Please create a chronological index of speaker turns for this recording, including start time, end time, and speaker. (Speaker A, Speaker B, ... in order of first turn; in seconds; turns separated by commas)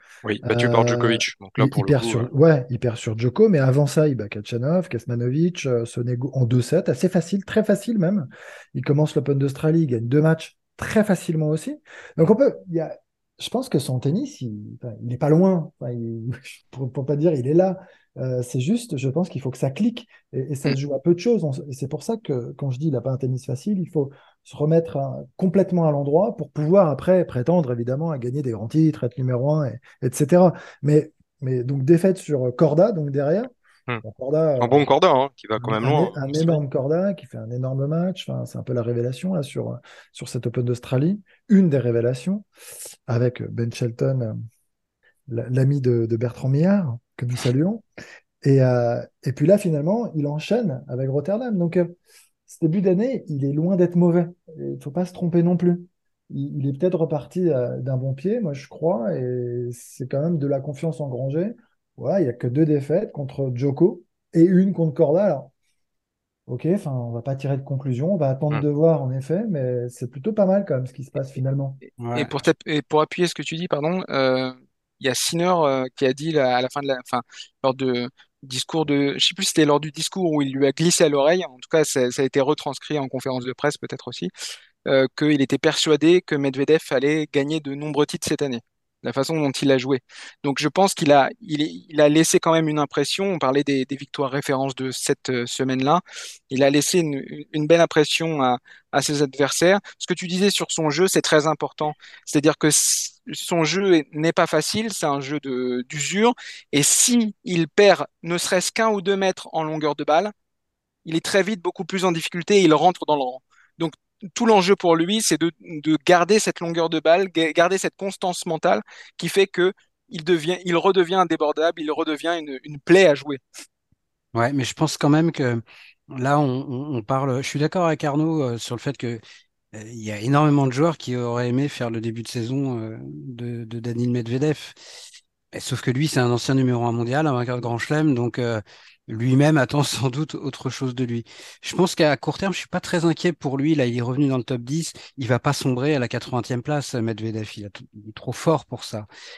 Speaker A: 0.2-2.3, Speaker B: 0.4-34.9, Speaker A: 34.6-36.6, Speaker B: 35.6-42.5, Speaker B: 43.1-44.3, Speaker B: 45.3-47.8, Speaker B: 48.4-51.9, Speaker B: 52.5-65.5, Speaker B: 66.5-71.8, Speaker C: 72.0-72.4, Speaker D: 72.1-84.3, Speaker D: 84.9-110.3, Speaker D: 111.0-123.4, Speaker C: 124.3-129.2, Speaker C: 129.7-134.8, Speaker C: 135.5-149.1